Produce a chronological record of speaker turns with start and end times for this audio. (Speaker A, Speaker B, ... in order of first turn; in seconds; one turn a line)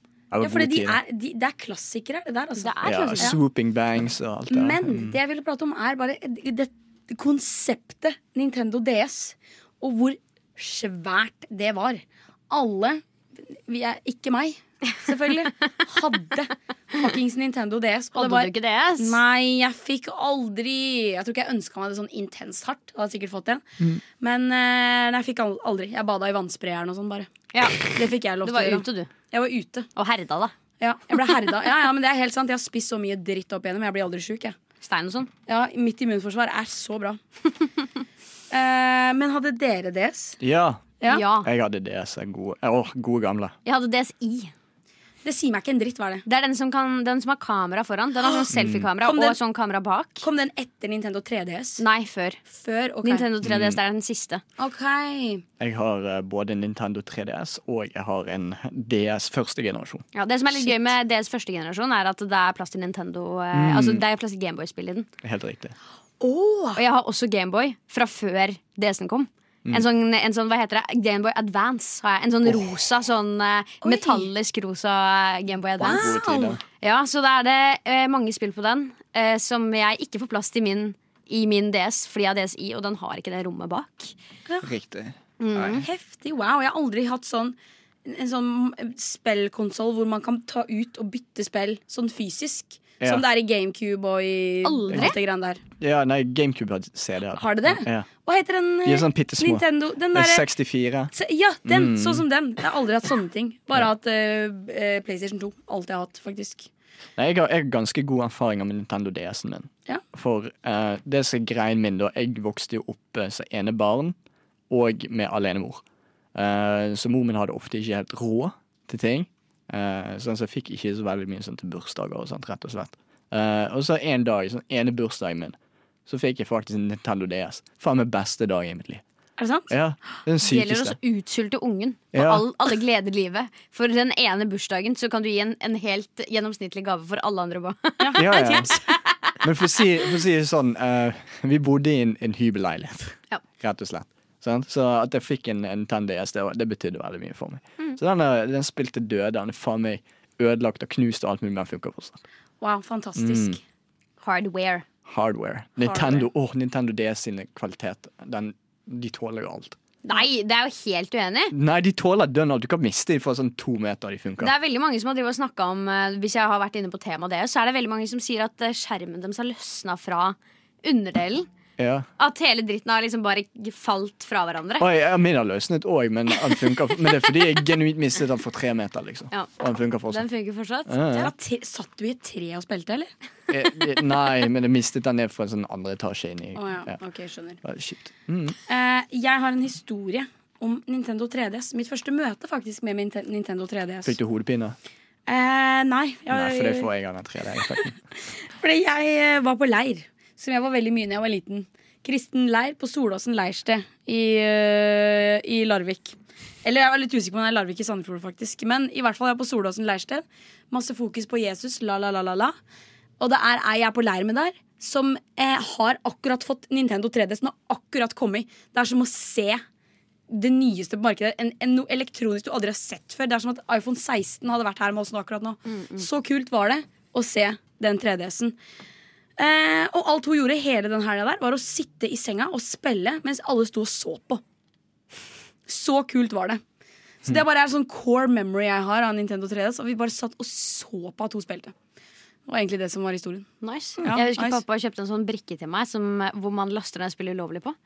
Speaker A: 0.3-1.0
Speaker B: 0.4-3.4
Speaker C: 2.6-3.4
Speaker A: 2.8-5.2
Speaker B: 4.5-23.6
Speaker C: 18.1-19.2
Speaker B: 24.2-29.9
Speaker C: 27.5-29.1
Speaker C: 29.9-30.5
Speaker B: 30.8-34.5
Speaker C: 34.8-35.3
Speaker B: 35.5-37.2
Speaker B: 38.5-40.4
Speaker A: 40.4-43.5
Speaker C: 41.0-41.5
Speaker C: 43.6-44.5
Speaker B: 45.2-46.2
Speaker C: 46.2-50.2
Speaker A: 48.5-48.9
Speaker B: 49.0-49.4
Speaker B: 50.2-51.8
Speaker C: 51.8-52.4
Speaker B: 52.5-53.2
Speaker C: 53.0-54.4
Speaker A: 53.4-53.8
Speaker B: 54.6-55.4
Speaker A: 55.6-60.0
Speaker C: 60.1-65.1
Speaker A: 63.5-64.0
Speaker A: 65.2-65.7
Speaker B: 66.2-66.8
Speaker C: 66.7-76.2
Speaker B: 73.8-74.3
Speaker A: 75.8-76.6
Speaker B: 75.8-76.6
Speaker C: 76.8-84.1
Speaker A: 84.6-85.8
Speaker C: 85.4-85.8
Speaker B: 85.8-95.6
Speaker C: 94.6-95.2
Speaker A: 95.8-98.0
Speaker B: 97.3-100.5
Speaker A: 98.8-101.1
Speaker B: 101.1-106.7
Speaker A: 101.7-102.2
Speaker A: 107.2-114.2
Speaker A: 114.7-115.8
Speaker A: 116.3-125.5
Speaker A: 126.1-129.0
Speaker B: 129.4-129.7
Speaker A: 129.7-131.0
Speaker C: 130.4-139.3
Speaker A: 132.1-132.4
Speaker B: 138.0-138.8
Speaker A: 138.2-138.7
Speaker A: 139.4-152.2
Speaker B: 152.6-153.6
Speaker A: 153.2-153.6
Speaker C: 154.2-154.8
Speaker A: 155.1-159.8
Speaker B: 155.8-156.2
Speaker C: 160.0-161.5
Speaker A: 161.5-164.5
Speaker C: 164.4-171.5
Speaker A: 171.8-172.1
Speaker C: 172.2-174.9
Speaker A: 174.8-180.2
Speaker C: 180.1-181.0
Speaker A: 180.9-181.3
Speaker B: 181.1-183.1
Speaker A: 183.5-186.9
Speaker B: 186.5-187.6
Speaker A: 187.6-188.6
Speaker B: 188.7-194.2
Speaker A: 194.0-194.8
Speaker B: 195.3-196.9
Speaker A: 196.3-198.0
Speaker B: 198.5-212.5
Speaker B: 213.2-219.6
Speaker B: 220.3-228.5
Speaker C: 225.7-226.0
Speaker B: 229.4-234.4
Speaker B: 235.7-236.6
Speaker B: 237.2-241.7
Speaker B: 242.5-243.5
Speaker C: 243.6-247.8
Speaker B: 244.0-244.6